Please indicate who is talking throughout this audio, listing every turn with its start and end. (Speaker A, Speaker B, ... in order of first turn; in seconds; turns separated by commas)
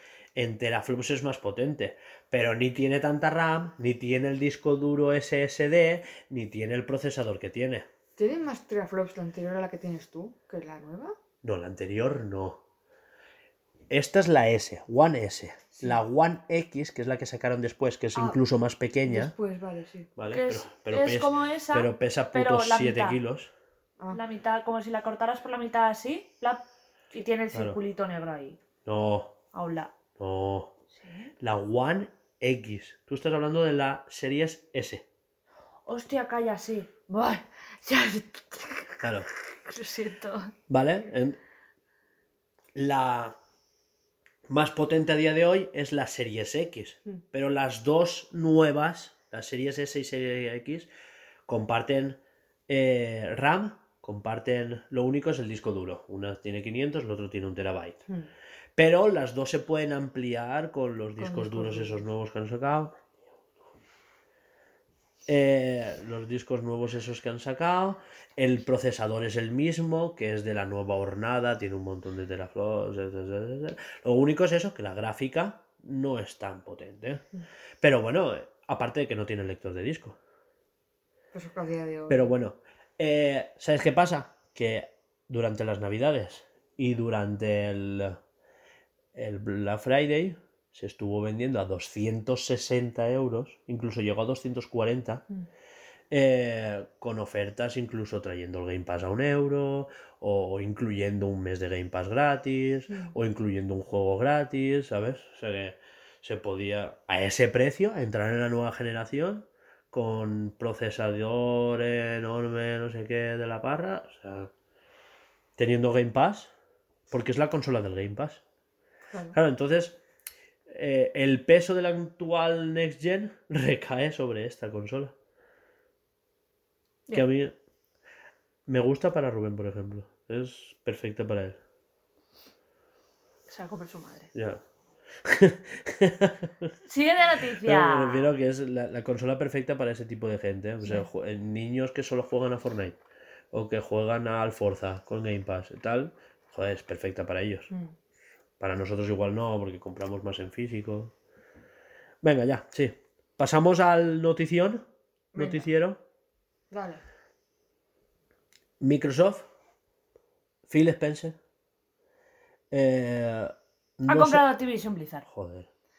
Speaker A: 0.3-7.9, Speaker B: 8.2-11.1, Speaker A: 11.4-12.6, Speaker A: 13.9-19.3, Speaker B: 18.1-18.4, Speaker B: 19.0-20.1, Speaker A: 20.1-23.5, Speaker C: 20.3-23.2, Speaker C: 24.1-28.6, Speaker A: 27.5-27.8, Speaker A: 28.8-29.4, Speaker C: 29.5-29.9, Speaker A: 30.2-30.7, Speaker C: 31.0-31.3, Speaker A: 31.4-35.0, Speaker C: 35.9-39.1, Speaker A: 39.0-39.3, Speaker C: 39.6-40.5, Speaker A: 40.7-41.4, Speaker A: 42.7-43.4, Speaker A: 44.5-50.9, Speaker A: 51.5-58.0, Speaker A: 58.8-63.0, Speaker B: 61.2-62.0, Speaker A: 65.2-77.2, Speaker A: 77.8-80.2, Speaker B: 81.3-82.3, Speaker A: 82.1-88.2, Speaker A: 89.1-95.2, Speaker A: 96.1-114.5, Speaker B: 102.9-103.1, Speaker A: 115.6-116.5, Speaker A: 117.1-118.4, Speaker A: 119.3-120.0, Speaker A: 120.7-125.1, Speaker A: 127.1-127.5, Speaker A: 128.7-131.6, Speaker C: 133.5-134.3, Speaker A: 134.3-134.6, Speaker A: 135.2-136.7, Speaker C: 136.8-138.3, Speaker A: 137.6-143.0, Speaker A: 143.5-147.7, Speaker A: 148.6-151.1, Speaker A: 152.2-154.8, Speaker B: 155.3-155.7, Speaker A: 155.3-156.0, Speaker B: 156.7-157.0, Speaker A: 158.8-159.4, Speaker A: 160.7-161.4, Speaker A: 162.7-164.4, Speaker C: 164.1-165.2, Speaker A: 165.2-165.7